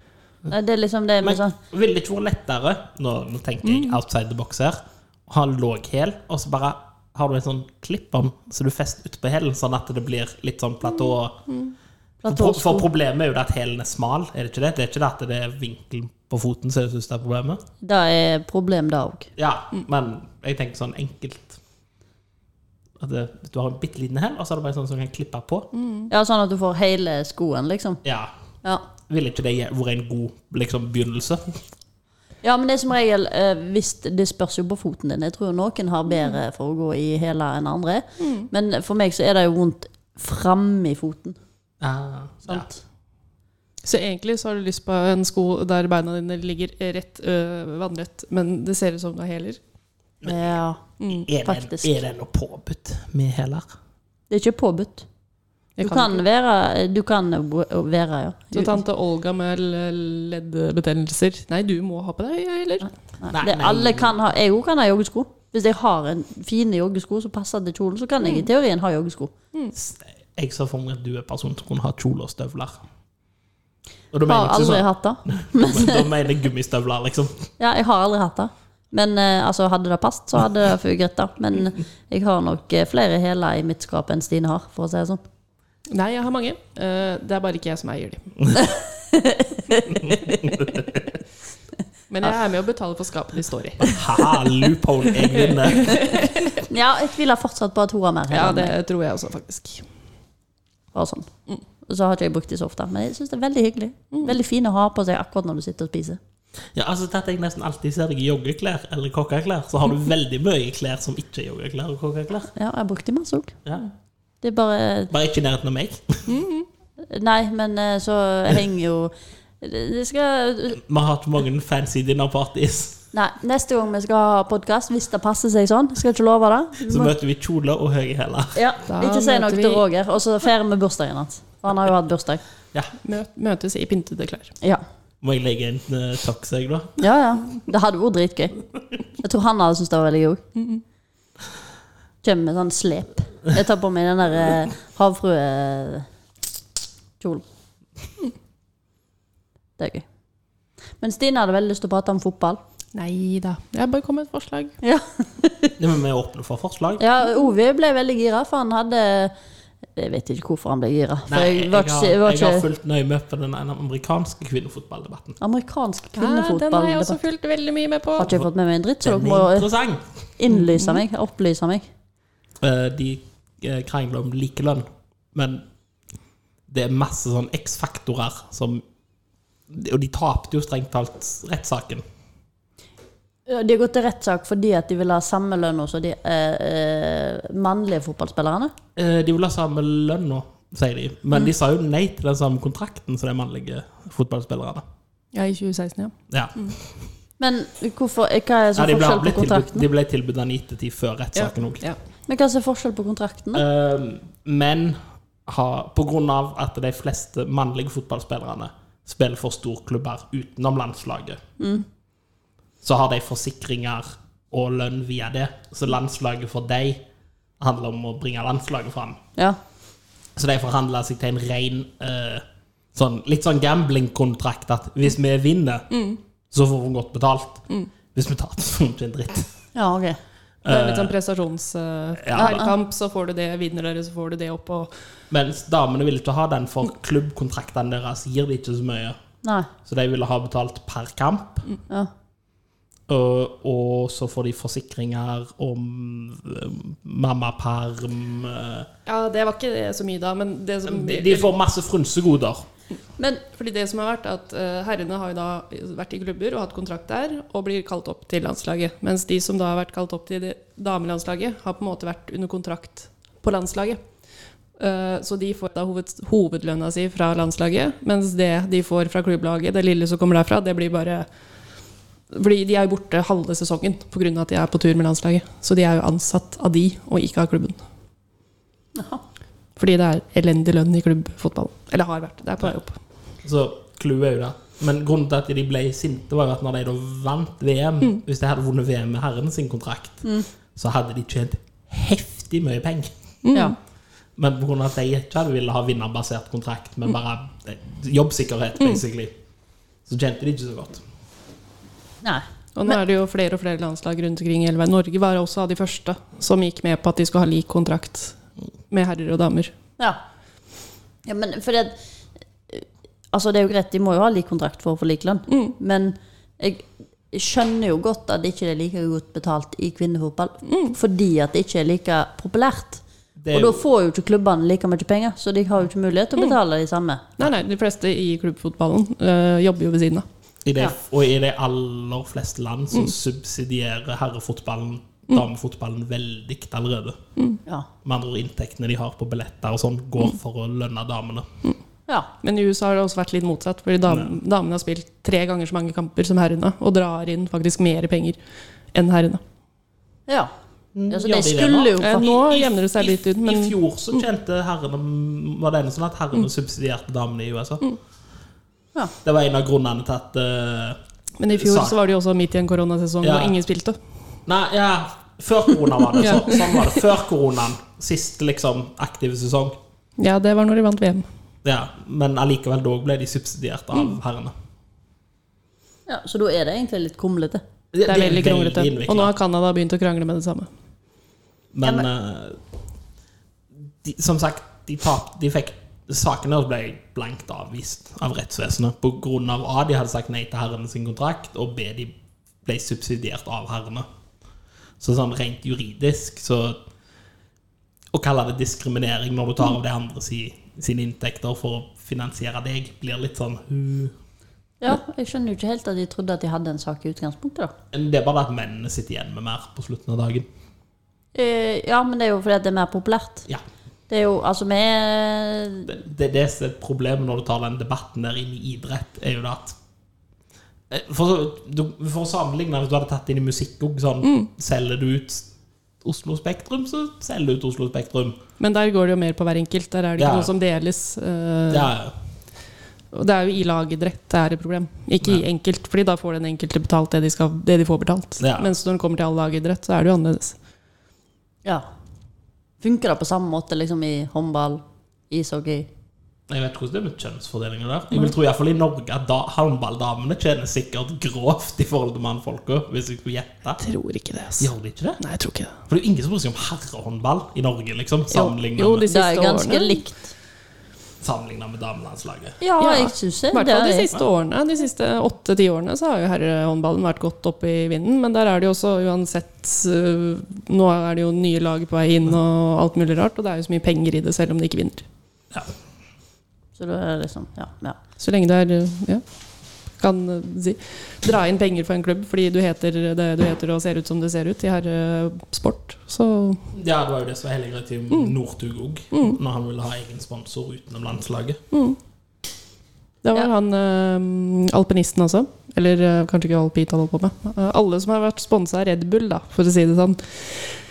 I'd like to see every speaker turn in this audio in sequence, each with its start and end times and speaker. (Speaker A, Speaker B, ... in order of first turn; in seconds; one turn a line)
Speaker A: 0.5-1.6
Speaker B: 1.2-11.4
Speaker C: 3.6-4.0
Speaker A: 12.2-12.9
Speaker B: 12.3-17.6
Speaker A: 17.8-19.3
Speaker B: 19.4-21.6
Speaker B: 23.0-25.7
Speaker C: 25.7-26.1
Speaker A: 26.1-28.0
Speaker B: 28.0-28.3
Speaker B: 29.1-31.6
Speaker A: 32.4-41.4
Speaker C: 38.2-38.5
Speaker B: 41.8-42.7
Speaker A: 42.5-42.8
Speaker C: 43.8-49.6
Speaker B: 50.2-50.6
Speaker A: 50.2-50.8
Speaker C: 51.0-51.3
Speaker B: 51.1-53.7
Speaker A: 51.4-52.0
Speaker A: 54.3-55.0
Speaker C: 55.8-56.2
Speaker A: 55.8-58.8
Speaker C: 58.5-62.9
Speaker A: 62.8-69.3
Speaker B: 63.3-64.1
Speaker B: 69.7-72.8
Speaker B: 74.1-77.5
Speaker A: 74.2-76.1
Speaker A: 77.6-85.2
Speaker C: 85.9-88.3
Speaker A: 88.5-90.6
Speaker B: 90.0-91.0
Speaker C: 92.1-94.2
Speaker B: 93.8-96.2
Speaker C: 95.3-96.6
Speaker A: 96.6-98.7
Speaker C: 98.3-99.8
Speaker A: 100.9-101.3
Speaker A: 101.8-106.2
Speaker B: 106.7-112.5
Speaker A: 112.5-113.6
Speaker A: 114.4-115.1
Speaker B: 115.1-116.3
Speaker C: 116.3-116.7
Speaker A: 117.1-120.8
Speaker B: 120.7-123.0
Speaker A: 123.1-127.1
Speaker B: 126.8-128.6
Speaker A: 128.5-132.4
Speaker C: 128.9-129.8
Speaker C: 133.0-134.5
Speaker B: 135.2-137.0
Speaker A: 137.0-138.6
Speaker A: 139.2-140.4
Speaker C: 140.6-140.8
Speaker A: 142.2-146.1
Speaker A: 149.8-150.1
Speaker A: 151.0-152.6
Speaker C: 152.9-154.7
Speaker A: 154.8-155.7
Speaker B: 155.8-157.0
Speaker A: 157.0-159.3
Speaker A: 159.9-162.7
Speaker B: 161.3-165.4
Speaker A: 165.4-167.2
Speaker C: 166.2-168.3
Speaker A: 168.2-169.7
Speaker B: 169.0-170.1
Speaker A: 170.4-171.9
Speaker C: 170.5-171.0
Speaker B: 172.6-175.6
Speaker B: 176.7-178.8
Speaker B: 179.7-182.0
Speaker A: 183.5-188.7
Speaker B: 188.9-194.8
Speaker C: 195.3-196.8
Speaker B: 196.3-196.9
Speaker A: 197.4-199.9
Speaker B: 198.7-201.8
Speaker C: 201.3-202.0
Speaker A: 202.3-203.6
Speaker B: 203.5-211.4
Speaker A: 211.6-211.8
Speaker B: 212.8-217.0
Speaker B: 217.6-219.2
Speaker B: 220.3-222.4
Speaker B: 222.9-226.0
Speaker C: 225.9-226.2
Speaker B: 226.5-229.5
Speaker A: 229.7-230.2
Speaker B: 230.6-231.1
Speaker C: 230.7-234.9
Speaker B: 232.2-232.7
Speaker A: 232.3-232.7
Speaker B: 235.3-239.2
Speaker A: 239.4-239.7
Speaker B: 239.8-241.7
Speaker B: 243.1-248.9
Speaker C: 249.1-251.5
Speaker B: 250.8-252.7
Speaker A: 253.2-253.4
Speaker C: 253.5-264.0
Speaker C: 264.8-271.2
Speaker C: 272.3-277.8
Speaker A: 278.9-279.2
Speaker C: 279.8-283.0
Speaker B: 283.4-290.2
Speaker B: 290.8-293.1
Speaker C: 293.4-293.7
Speaker B: 294.4-299.3
Speaker B: 300.1-301.0
Speaker A: 302.2-302.9
Speaker C: 302.7-308.4
Speaker C: 308.9-309.7
Speaker A: 311.2-312.0
Speaker A: 312.7-327.3
Speaker C: 315.5-315.7
Speaker C: 320.6-320.9
Speaker B: 323.4-323.8
Speaker C: 327.4-330.2
Speaker B: 330.6-337.2
Speaker B: 338.0-341.5
Speaker C: 342.4-348.4
Speaker B: 344.1-344.3
Speaker C: 348.9-349.4
Speaker B: 350.9-357.8
Speaker A: 351.1-352.3
Speaker C: 352.0-353.8
Speaker B: 359.2-361.0
Speaker C: 361.4-364.0
Speaker B: 361.5-361.9
Speaker B: 363.2-363.6
Speaker B: 364.4-369.8
Speaker C: 366.2-366.7
Speaker C: 370.2-371.2
Speaker B: 371.6-374.5
Speaker A: 376.1-377.6
Speaker B: 377.9-379.3
Speaker C: 378.1-380.7
Speaker B: 381.7-382.6
Speaker B: 384.0-394.1
Speaker B: 395.0-396.8
Speaker B: 398.1-404.1
Speaker A: 404.8-407.7
Speaker B: 407.9-410.5
Speaker A: 411.3-413.5
Speaker A: 414.1-415.9
Speaker B: 415.9-419.8
Speaker B: 420.9-425.5
Speaker C: 424.2-424.5
Speaker B: 426.0-428.4
Speaker C: 428.6-431.9
Speaker B: 430.2-430.5
Speaker B: 431.7-432.1
Speaker C: 433.1-440.6
Speaker B: 438.4-438.7
Speaker A: 442.8-445.9
Speaker B: 446.5-453.8
Speaker C: 453.8-454.7
Speaker B: 454.6-455.2
Speaker C: 455.2-455.8
Speaker B: 455.9-459.1
Speaker C: 458.3-460.0
Speaker A: 459.1-460.3
Speaker B: 461.2-462.6
Speaker A: 462.6-464.1
Speaker C: 462.8-475.1
Speaker A: 476.8-478.0
Speaker C: 478.2-479.2
Speaker C: 480.0-486.6
Speaker B: 486.7-491.6
Speaker C: 489.1-489.4
Speaker C: 491.7-492.0
Speaker C: 493.2-500.7